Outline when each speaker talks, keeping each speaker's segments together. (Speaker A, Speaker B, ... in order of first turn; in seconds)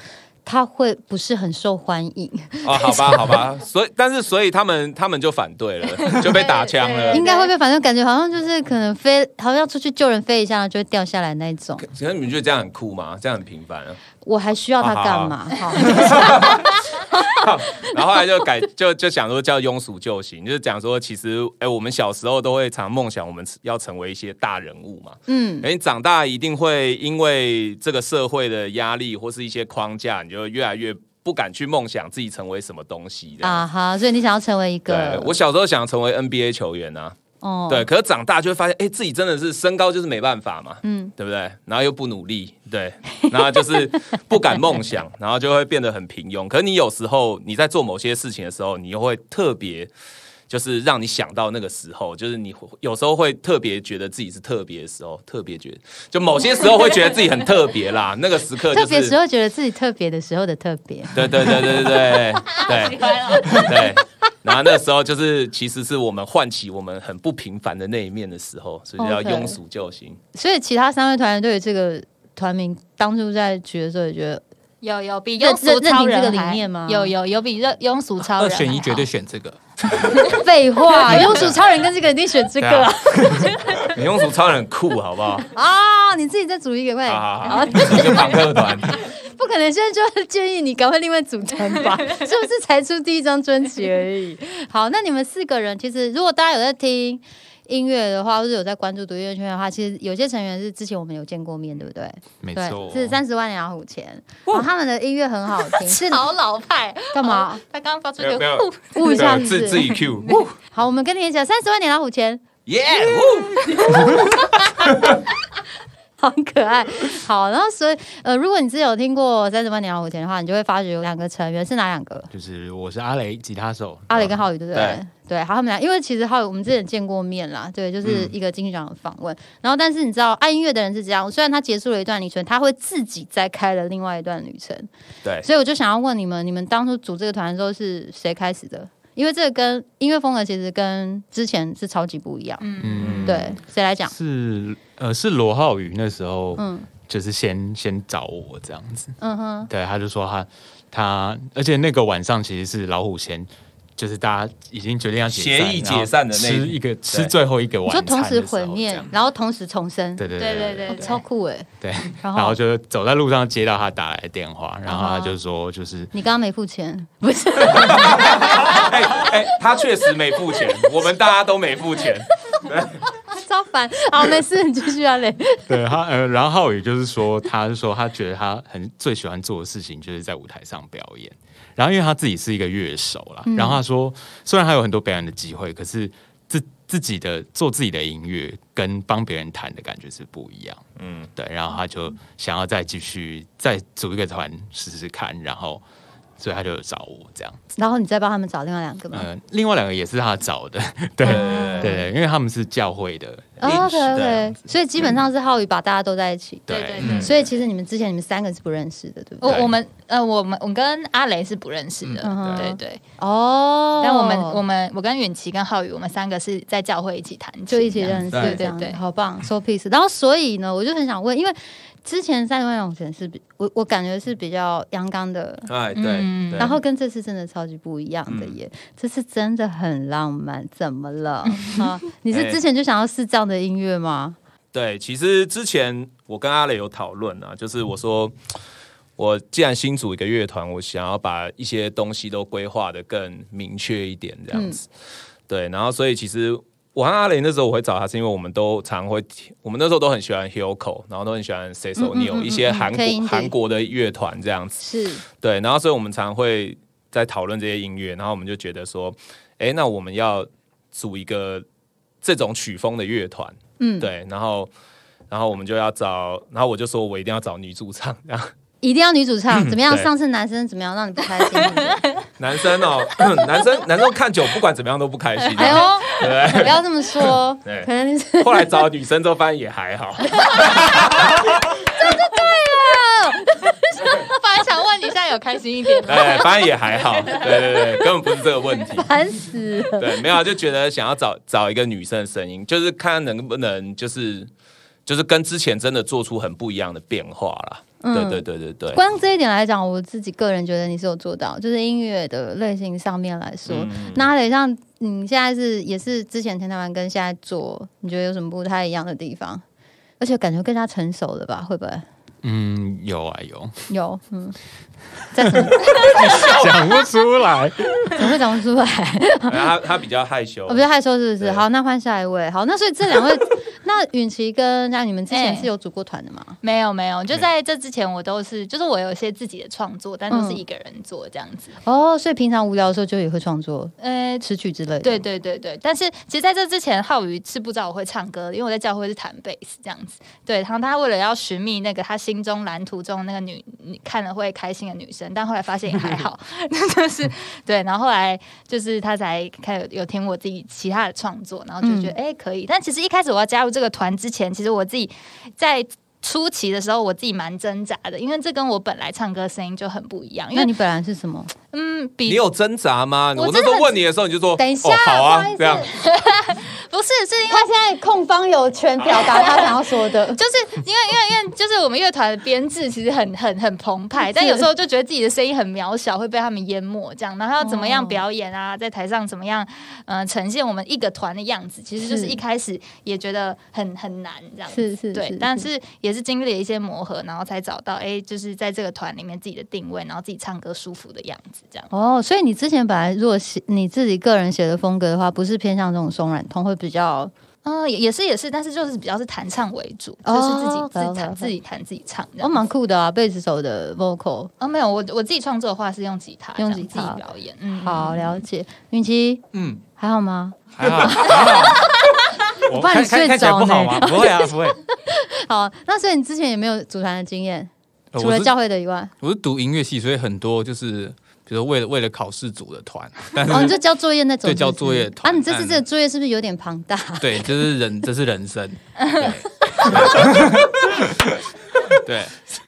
Speaker A: 0.4-3.4, 7.1-11.8, 14.2-16.5, 25.3-25.7, 33.4-35.3, 37.4-37.9, 40.8-41.1, 58.7-61.9, 63.3-63.9, 69.0-69.6, 70.3-74.4, 75.4-77.1, 80.2-83.7, 85.5-106.2, 107.1-107.6, 108.9-112.4, 113.8-114.3, 116.2-122.3, 124.1-134.9, 135.4-142.7, 143.2-144.1, 146.6-146.9, 149.2-149.7, 157.9-160.2, 160.9-161.7, 162.2-162.6, 164.8-165.4, 166.1-169.2, 173.3-175.7, 183.4-183.8, 197.8-199.3, 201.2-202.1, 203.6-209.7, 212.2-214.6, 217.7-225.7, 226.6-234.4, 244.5-244.8, 252.0-253.5, 254.8-255.2, 263.8-264.1, 268.8-272.0, 275.6-278.7, 280.4-281.2, 281.9-284.2, 288.9-290.3, 298.0-309.6, 310.2-312.0, 313.9-314.6, 315.3-315.9, 318.1-319.7, 320.7-326.6, 330.3-330.6, 331.8-335.2, 351.8-352.1, 360.5-361.5, 364.6-365.9, 367.5-370.4, 374.2-374.7, 377.6-378.2, 382.0-382.4, 384.7-385.7, 391.9-397.3, 400.2-401.5, 402.4-404.5, 406.6-407.2, 407.8-409.4, 410.0-411.8, 412.7-419.1, 423.5-427.6
Speaker B: 2.6-7.2, 11.8-14.0, 14.8-33.6, 34.9-37.2, 37.7-49.9, 50.5-59.1, 61.1-70.2, 81.0-81.6, 83.8-85.5, 87.1-89.0, 108.2-110.5, 112.7-115.2, 124.7-125.0, 128.0-128.3, 143.0-143.4, 155.3-157.3, 167.7-173.0, 191.0-191.3, 201.2-201.9, 203.6-204.4, 207.0-207.3, 209.4-209.7, 212.2-212.7, 218.3-218.6, 225.7-226.8, 228.3-228.6, 232.3-232.6, 234.7-238.3, 239.2-244.8, 245.5-261.6, 262.2-264.7, 265.3-268.5, 269.5-270.1, 272.4-276.8, 278.4-281.9, 286.1-289.1, 290.0-294.5, 295.1-299.0, 303.7-304.3, 316.2-316.9, 319.5-320.8, 362.2-365.9, 429.9-430.6
Speaker C: 6.0-7.5, 62.6-63.6, 74.8-79.1, 105.7-110.4, 113.7-114.1, 142.6-143.4, 160.4-161.2, 206.7-207.4, 209.4-213.0, 214.0-219.0, 225.9-226.8, 275.5-276.1, 284.2-286.6, 287.4-287.7, 325.3-325.7, 326.6-331.8, 334.0-334.4, 335.0-360.7, 361.7-362.4, 363.3-363.9, 365.9-367.7, 369.1-369.8, 370.3-391.9, 397.6-402.6, 404.6-408.4, 429.0-429.4
Speaker D: 78.3-80.3, 409.5-409.8, 410.8-411.9, 412.6-414.8, 418.1-418.5, 419.2-423.8, 424.4-425.8, 427.2-431.0, 432.0-432.3
Speaker E: 102.4-103.2, 122.3-124.4, 142.8-143.5, 144.1-149.2, 149.7-159.1, 160.2-161.2, 161.8-166.1, 175.7-190.8, 191.3-195.8, 196.4-197.6, 199.1-204.6, 206.7-207.3, 312.4-313.7, 315.4-318.1